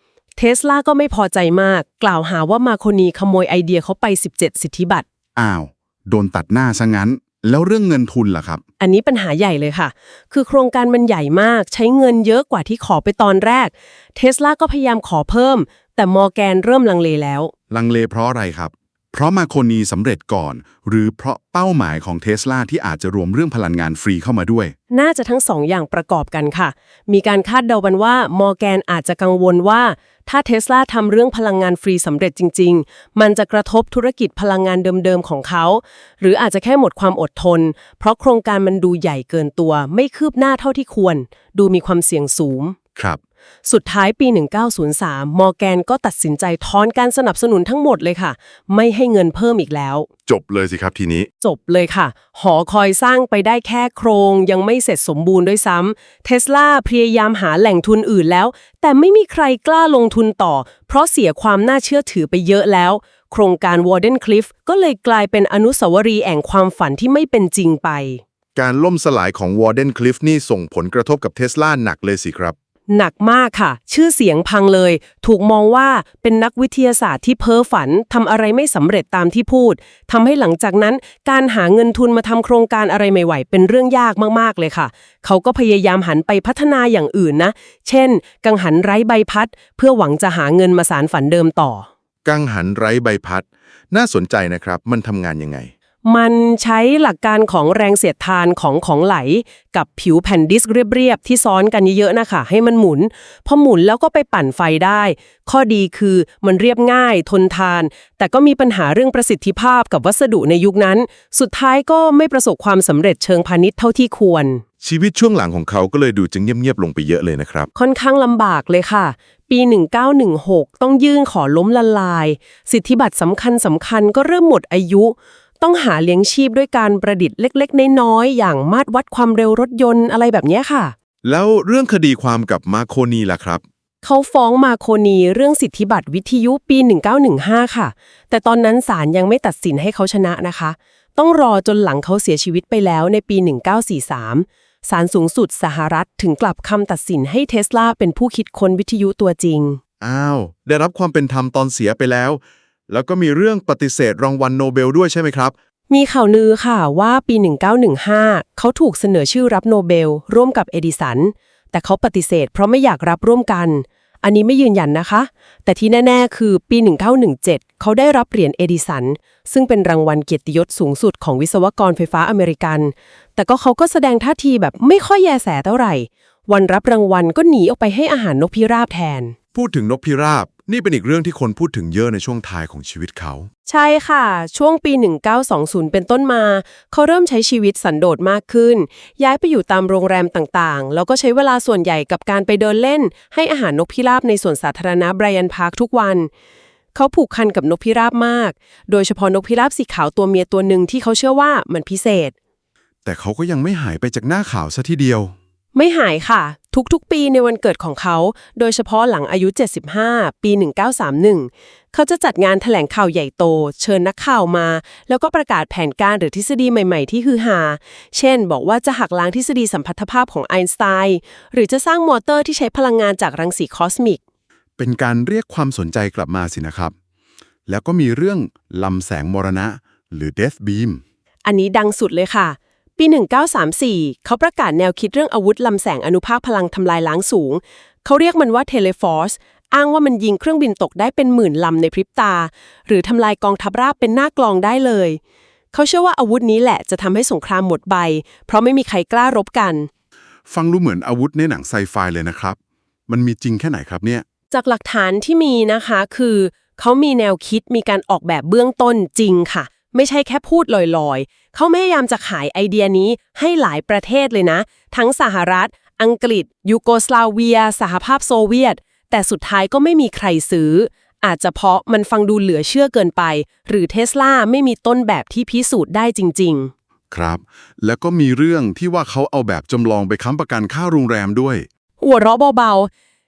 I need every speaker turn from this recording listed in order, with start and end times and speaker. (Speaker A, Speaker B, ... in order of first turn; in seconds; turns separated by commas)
Speaker A: 0.4-5.0, Speaker B: 5.4-8.6, Speaker A: 8.8-17.5, Speaker B: 17.7-24.8, Speaker A: 24.9-42.8, Speaker A: 43.6-50.1, Speaker B: 50.3-51.3, Speaker A: 51.4-68.2, Speaker B: 68.6-72.6, Speaker A: 72.9-91.9, Speaker B: 92.2-95.7, Speaker A: 96.0-114.6, Speaker B: 114.8-117.7, Speaker A: 117.8-130.9, Speaker B: 131.2-133.6, Speaker A: 134.0-149.8, Speaker B: 150.0-155.6, Speaker A: 155.9-179.4, Speaker B: 179.5-183.5, Speaker A: 183.7-196.3, Speaker A: 196.9-202.3, Speaker B: 203.1-205.4, Speaker A: 205.7-224.2, Speaker B: 224.8-226.9, Speaker B: 227.7-231.0, Speaker A: 231.4-245.2, Speaker A: 245.7-249.9, Speaker B: 250.5-254.2, Speaker A: 254.5-276.7, Speaker B: 277.1-281.7, Speaker A: 282.0-282.9